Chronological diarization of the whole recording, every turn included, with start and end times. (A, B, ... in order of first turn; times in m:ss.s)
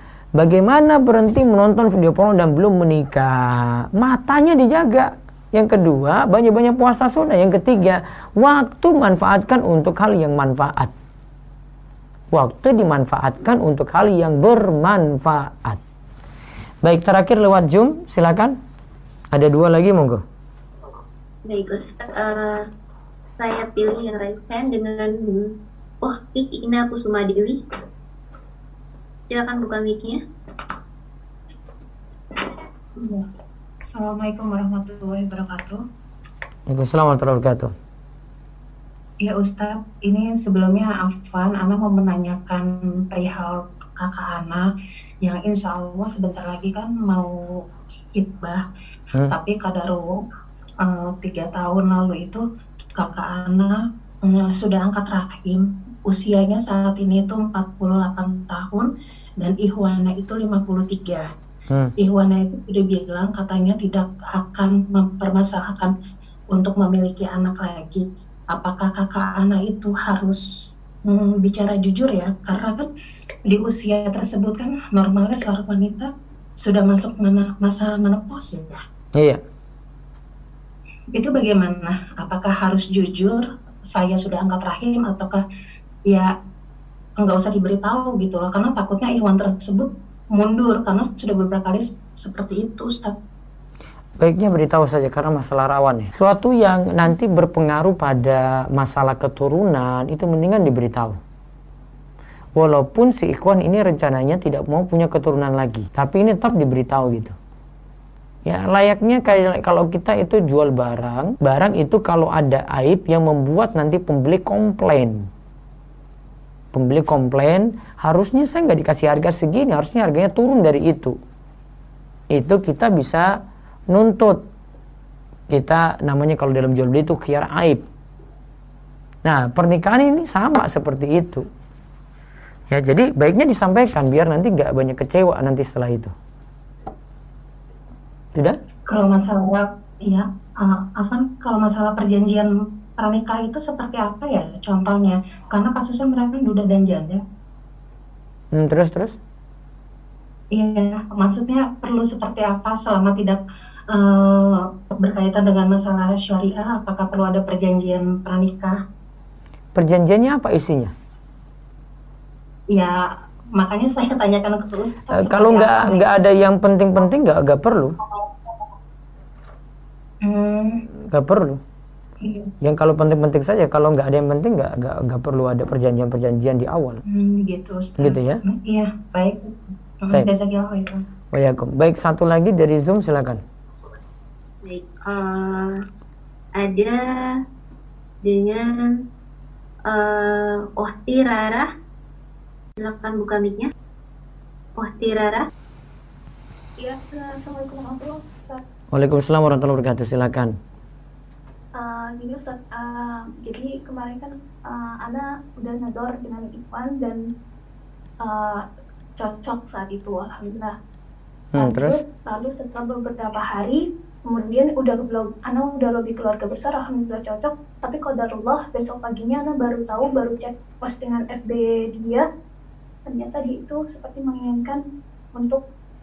0:00.4-0:10.9 A
0:12.3-0:15.8 A
0:16.8-0:18.6 A
0:19.3-0:20.2 A
0:21.5-0:22.6 B
0:23.4-0:27.6 B
0:29.3-0:30.2 B
0:33.0-0:33.2 C
0:33.8-0:35.8 C
0:36.7-0:37.7 A
0:39.2-0:44.6 C
0:45.2-0:47.6 C
0:48.1-0:48.6 C
0:49.2-0:50.2 C
0:50.8-0:52.4 C
0:53.0-1:01.2 C
1:02.0-1:05.9 C
1:06.5-1:12.9 C
1:13.4-1:16.1 C
1:16.6-1:18.8 C
1:19.1-1:19.4 A
1:21.1-1:25.4 C
1:27.2-1:33.1 C
1:34.2-1:41.2 A
1:42.6-1:47.3 A
1:48.4-1:55.3 A
1:56.7-2:01.2 A
2:02.3-2:03.4 A
2:03.9-2:04.4 A
2:05.5-2:07.8 A
2:09.2-2:11.5 A
2:12.7-2:16.1 A
2:18.9-2:27.2 C
2:28.5-2:29.2 A
2:30.5-2:38.8 C
2:39.7-2:40.9 A
2:42.7-2:43.0 C
2:43.6-2:46.1 C
2:45.1-2:48.0 A
2:48.1-2:48.5 C
2:50.2-2:50.8 C
2:51.1-2:51.6 A
2:52.2-2:52.5 C
2:52.6-2:57.0 A
2:57.1-3:01.0 C
2:58.0-2:58.4 A
3:01.3-3:03.4 A
3:04.6-3:05.8 B
3:06.6-3:07.4 B
3:08.2-3:09.0 B
3:09.9-3:11.7 B
3:12.8-3:13.7 B
3:14.8-3:15.5 B
3:16.8-3:18.6 D
3:18.9-3:20.5 A
3:21.7-3:27.2 D
3:28.2-3:28.6 D
3:29.2-3:30.7 D
3:31.5-3:32.0 A
3:31.6-3:42.2 D
3:43.0-3:44.8 D
3:45.3-3:45.6 D